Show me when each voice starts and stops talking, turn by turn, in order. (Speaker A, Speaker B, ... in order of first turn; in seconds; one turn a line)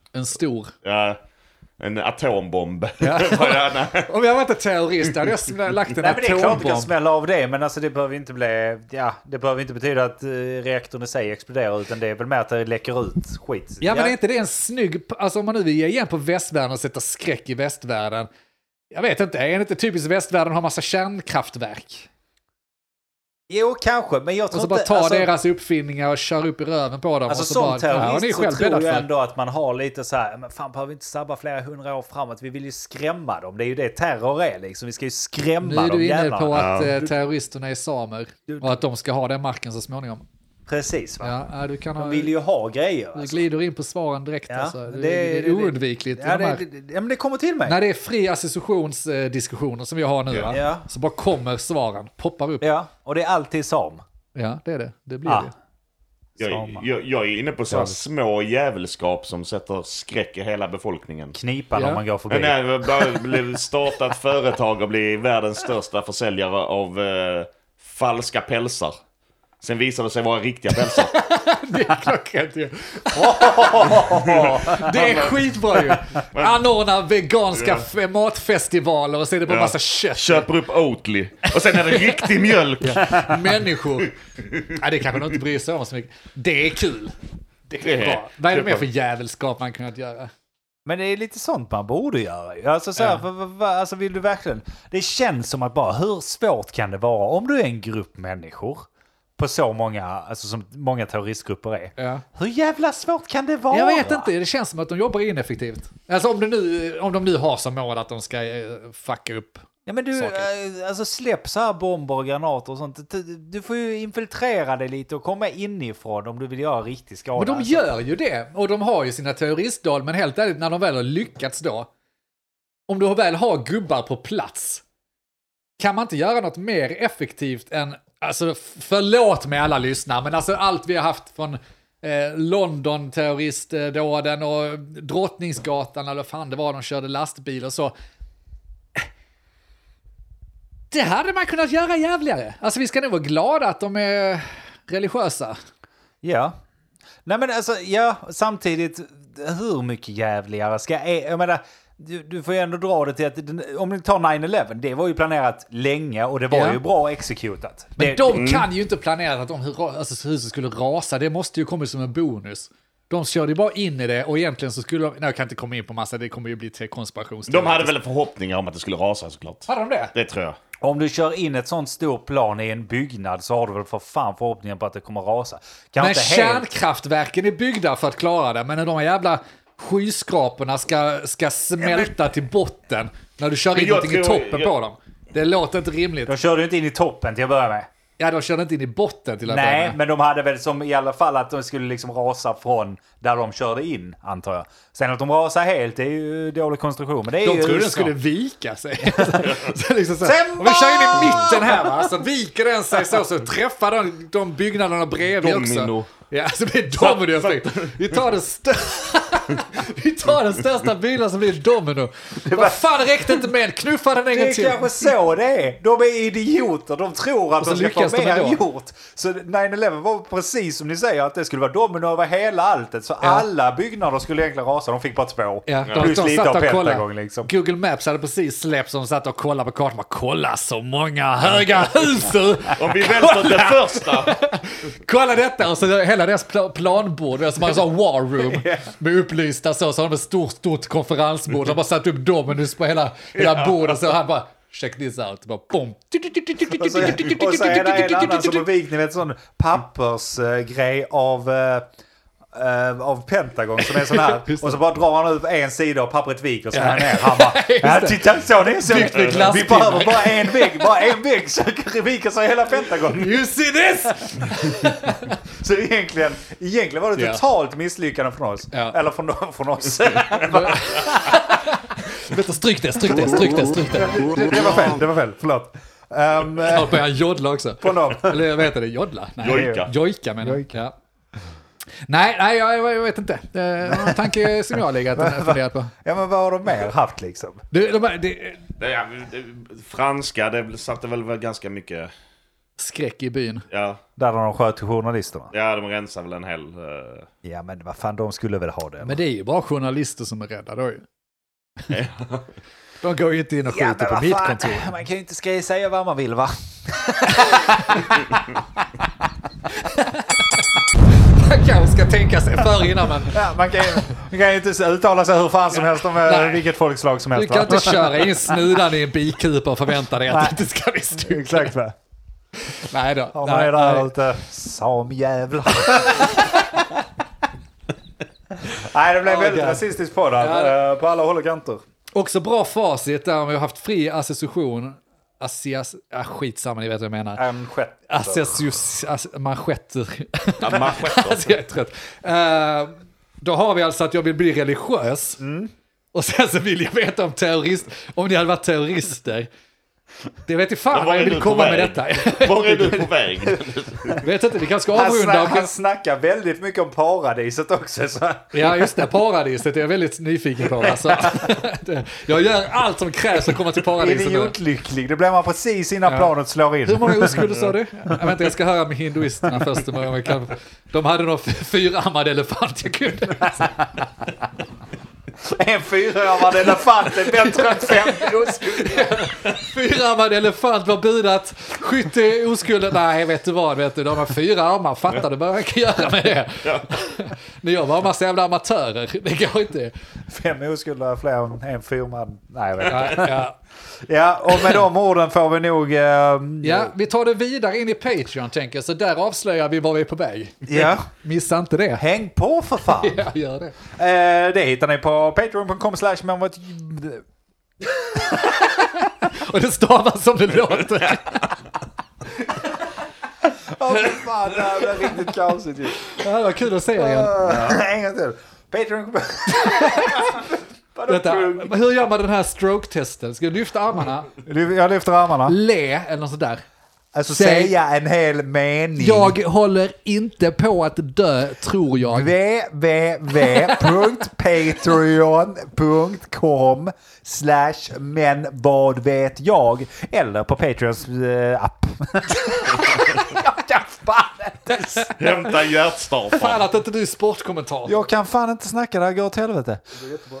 Speaker A: 0.1-0.7
Speaker B: 0.8-1.2
Speaker B: 1.8-4.1
Speaker A: 3.0-6.9
Speaker C: 6.0-14.2
Speaker A: 13.8-18.3
Speaker A: 18.9-22.1
Speaker C: 23.5-25.3
Speaker A: 24.5-29.1
Speaker C: 27.3-37.1
Speaker A: 35.6-40.2
Speaker B: 36.5-36.9
Speaker C: 38.5-38.8
Speaker C: 40.7-41.3
Speaker A: 41.2-42.3
Speaker C: 42.0-43.4
Speaker A: 43.1-46.6
Speaker C: 44.5-47.8
Speaker A: 47.6-52.6
Speaker C: 50.5-50.9
Speaker C: 52.6-54.0
Speaker A: 54.3-55.5
Speaker C: 55.2-55.5
Speaker C: 56.4-56.8
Speaker B: 56.4-61.3
Speaker C: 57.7-58.0
Speaker C: 61.3-62.6
Speaker A: 61.8-62.0
Speaker B: 62.3-68.9
Speaker B: 69.6-71.1
Speaker A: 70.8-80.5
Speaker C: 73.1-75.1
Speaker B: 73.9-76.6
Speaker B: 77.5-77.8
Speaker B: 79.5-83.3
Speaker A: 81.7-82.3
Speaker A: 82.8-87.1
Speaker C: 82.8-83.3
Speaker A: 87.7-90.3
Speaker B: 87.8-88.8
Speaker C: 90.8-98.9
Speaker A: 93.0-93.2
Speaker C: 99.4-104.3
Speaker A: 102.0-102.2
Speaker A: 103.7-110.5
Speaker C: 109.8-117.9
Speaker A: 117.4-121.9
Speaker A: 122.9-124.8
Speaker A: 125.8-137.9
Speaker A: 140.9-145.6
Speaker C: 146.2-146.5
Speaker C: 147.2-158.4
Speaker A: 156.5-156.8
Speaker A: 158.0-167.9
Speaker B: 158.3-158.7
Speaker B: 167.5-170.6
Speaker A: 169.7-170.1
Speaker C: 170.8-176.7
Speaker A: 176.0-186.3
Speaker C: 181.8-182.1
Speaker B: 183.7-184.7
Speaker C: 186.3-187.9
Speaker A: 188.2-190.0
Speaker C: 189.5-198.1
Speaker A: 197.4-215.1
Speaker C: 199.1-199.5
Speaker C: 200.2-202.1
Speaker B: 205.4-206.1
Speaker B: 206.9-208.2
Speaker C: 212.4-213.4
Speaker C: 214.3-227.5
Speaker A: 217.6-218.6
Speaker A: 223.2-223.4
Speaker A: 225.7-248.7
Speaker B: 232.7-234.4
Speaker C: 238.4-238.9
Speaker C: 246.7-251.9
Speaker C: 252.5-263.4
Speaker A: 253.8-254.8
Speaker A: 256.7-261.1
Speaker A: 263.1-265.3
Speaker C: 265.4-271.4
Speaker A: 267.1-267.4
Speaker A: 268.7-269.0
Speaker A: 270.3-274.7
Speaker C: 273.9-277.1
Speaker A: 276.6-280.9
Speaker C: 277.8-278.4
Speaker B: 279.4-279.9
Speaker C: 279.5-279.9
Speaker C: 280.4-280.7
Speaker A: 282.1-285.9
Speaker C: 283.8-284.5
Speaker C: 285.1-287.6
Speaker A: 287.7-288.6
Speaker B: 288.8-292.1
Speaker A: 292.8-293.6
Speaker B: 293.7-294.0
Speaker C: 294.2-295.5
Speaker B: 295.5-297.3
Speaker C: 297.4-299.2
Speaker A: 299.0-301.1
Speaker B: 301.9-302.5
Speaker A: 303.0-304.9
Speaker C: 303.7-308.6
Speaker A: 307.3-308.2
Speaker A: 309.7-313.5
Speaker C: 313.2-318.8
Speaker A: 315.8-316.7
Speaker A: 317.3-321.7
Speaker C: 320.3-320.6
Speaker C: 321.1-321.9
Speaker A: 322.6-324.1
Speaker C: 323.3-327.1
Speaker C: 328.6-331.8
Speaker A: 329.2-330.8
Speaker A: 332.1-337.4
Speaker C: 337.4-338.6
Speaker A: 338.1-345.4
Speaker B: 340.6-341.5
Speaker C: 345.4-345.7
Speaker A: 346.1-349.5
Speaker A: 350.4-353.1
Speaker B: 350.9-354.2
Speaker A: 354.2-355.7
Speaker C: 354.9-358.9
Speaker A: 358.5-364.5
Speaker C: 360.8-361.6
Speaker C: 363.9-367.6
Speaker A: 366.1-366.3
Speaker A: 366.8-373.9
Speaker C: 375.4-379.3
Speaker A: 376.6-389.9
Speaker C: 390.3-393.4
Speaker A: 392.9-393.6
Speaker C: 394.0-396.9
Speaker A: 394.5-394.8
Speaker A: 396.6-402.0
Speaker C: 400.6-401.1
Speaker C: 402.0-403.2
Speaker A: 402.8-403.8
Speaker C: 403.8-407.2
Speaker A: 408.0-411.6
Speaker C: 413.4-416.1
Speaker A: 416.0-417.8
Speaker C: 416.9-421.8
Speaker A: 419.6-420.3
Speaker A: 421.1-424.3
Speaker C: 424.4-425.6
Speaker A: 425.4-426.6
Speaker C: 427.1-429.3
Speaker A: 427.3-427.7
Speaker A: 429.0-432.3
Speaker C: 432.0-445.1
Speaker A: 444.8-445.3
Speaker B: 445.2-446.7
Speaker A: 446.3-448.0
Speaker C: 447.8-450.2